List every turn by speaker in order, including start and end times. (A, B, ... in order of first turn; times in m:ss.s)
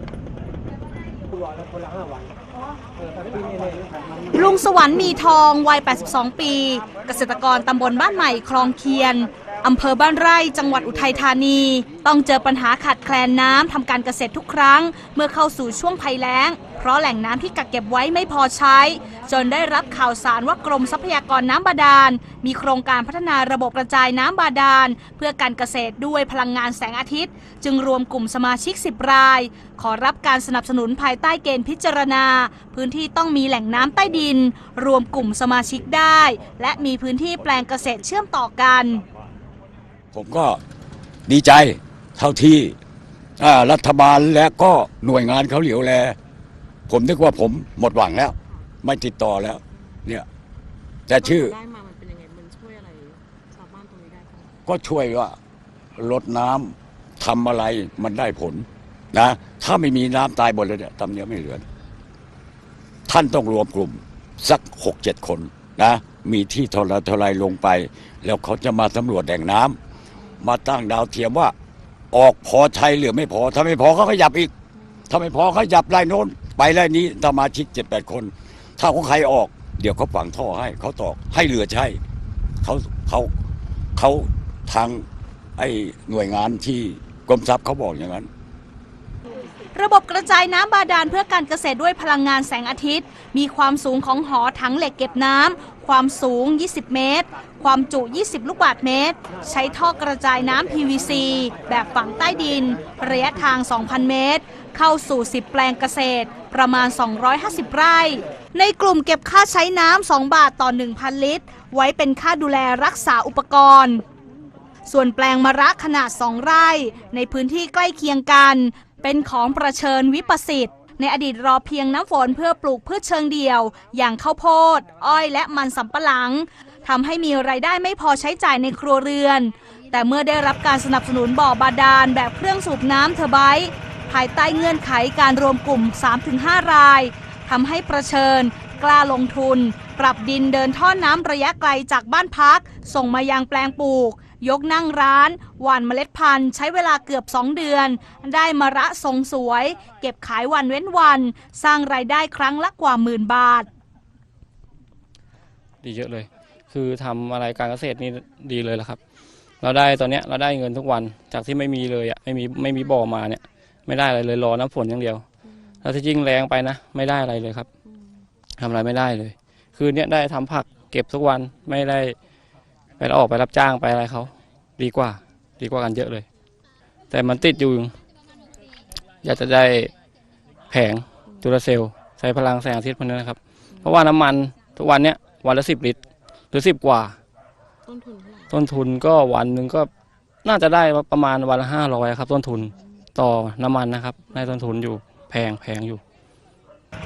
0:04.3-0:39.0 A
0:40.1-0:40.6 B
0:41.3-0:42.8 B
0:43.4-0:46.2 B
0:46.9-0:50.2 B
0:48.4-0:48.7 C
0:49.7-0:50.0 C
0:51.1-0:51.5 B
0:51.2-0:54.5 C
0:54.7-0:55.4 B
0:56.0-1:01.6 B
1:03.1-1:09.8 B
1:10.1-1:10.4 C
1:10.4-1:11.5 B
1:12.1-1:14.5 B
1:14.8-1:15.1 C
1:15.1-1:22.0 B
1:22.6-1:23.3 B
1:24.0-1:25.0 B
1:25.6-1:28.3 B
1:29.7-1:54.0 A
1:54.9-2:33.7 A
2:35.8-2:39.0 D
2:39.6-2:45.2 D
2:45.8-2:47.7 D
2:47.8-2:48.2 C
2:48.6-2:52.2 D
2:53.0-2:56.2 D
2:57.1-2:57.9 D
2:59.2-2:59.9 D
3:00.7-3:06.0 D
3:01.2-3:01.5 C
3:03.7-3:04.0 C
3:06.5-3:07.2 D
3:07.8-3:08.6 C
3:08.5-3:09.9 D
3:10.4-3:16.0 D
3:12.6-3:13.0 C